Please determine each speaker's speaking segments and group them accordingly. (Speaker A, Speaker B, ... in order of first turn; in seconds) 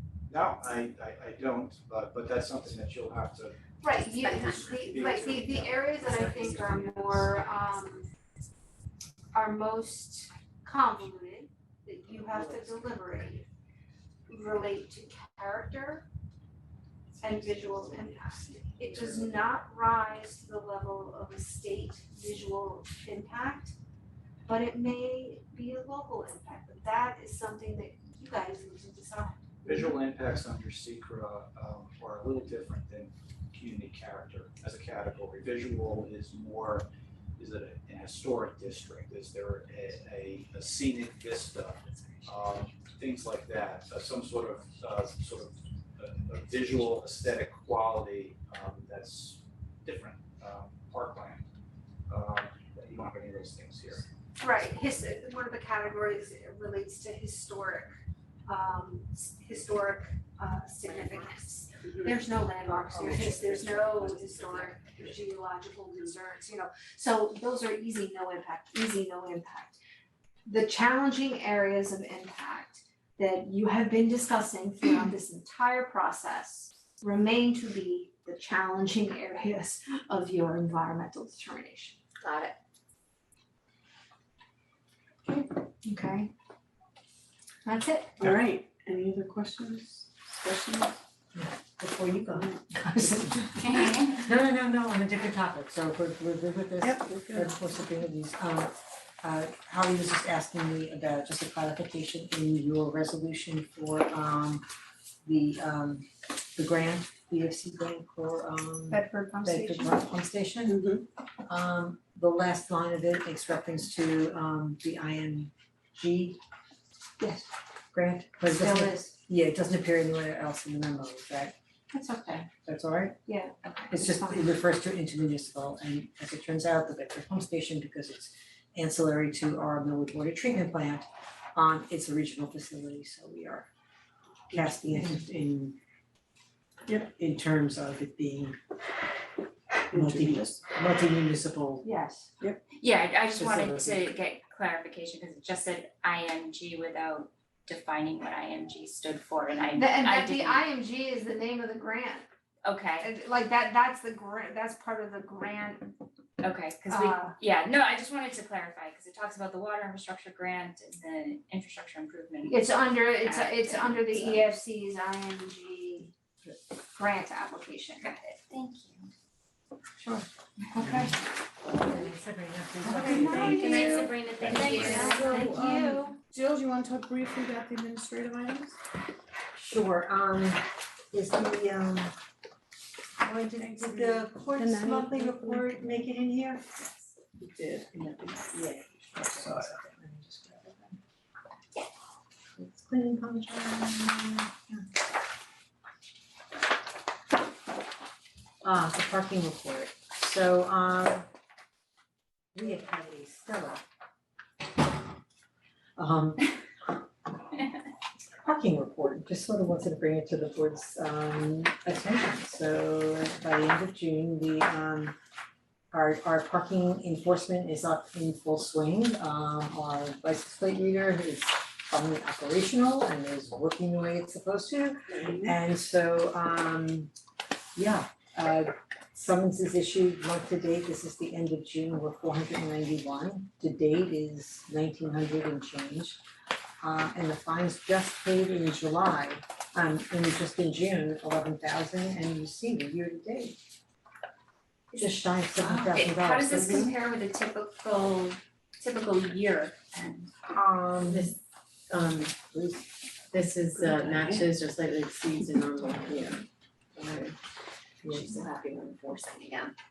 Speaker A: 0.3-5.9, 17.6-19.1, 29.6-36.9, 37.4-51.5, 52.1-54.0, 63.1-64.8
Speaker B: 3.8-8.1, 9.3-13.4, 14.3-16.1, 17.2-23.8, 24.4-29.4, 54.4-57.9, 58.5-69.8, 70.5-82.5, 85.3-86.3, 87.6-88.2, 108.9-110.0, 117.2-117.5, 118.5-119.1, 121.9-122.5, 123.3-124.5, 141.8-142.3, 149.7-152.2, 153.0-155.9, 156.9-157.3, 162.4-166.1, 166.9-168.4, 170.0-171.2, 172.9-176.2
Speaker C: 41.8-42.3, 93.6-94.2, 142.7-150.6, 152.6-153.1, 156.4-164.5, 168.5-169.1, 173.0-175.5, 186.8-187.1, 245.5-250.3
Speaker D: 62.9-63.4, 91.3-104.7, 105.2-110.8, 111.5-116.4, 117.9-121.5, 122.6-123.2, 123.9-133.7, 134.5-135.8, 136.9-138.6, 139.9-141.9, 143.3-144.1, 170.8-171.2, 171.7-175.6, 179.5-182.2, 183.2-186.7, 187.9-191.0, 192.6-194.9, 198.6-201.3, 202.5-203.8, 206.0-206.5, 208.4-215.2, 215.9-227.1, 227.7-236.2, 236.8-243.6, 244.9-247.0, 250.5-251.3, 252.5-252.8, 258.0-258.3
Speaker E: 88.2-91.0, 96.8-97.7, 139.9-140.4, 173.4-178.8, 183.6-184.3, 187.4-188.3, 225.2-225.4
Speaker F: 184.6-185.7, 251.1-251.4, 251.9-252.3, 253.3-256.4, 257.0-257.3, 258.0-259.7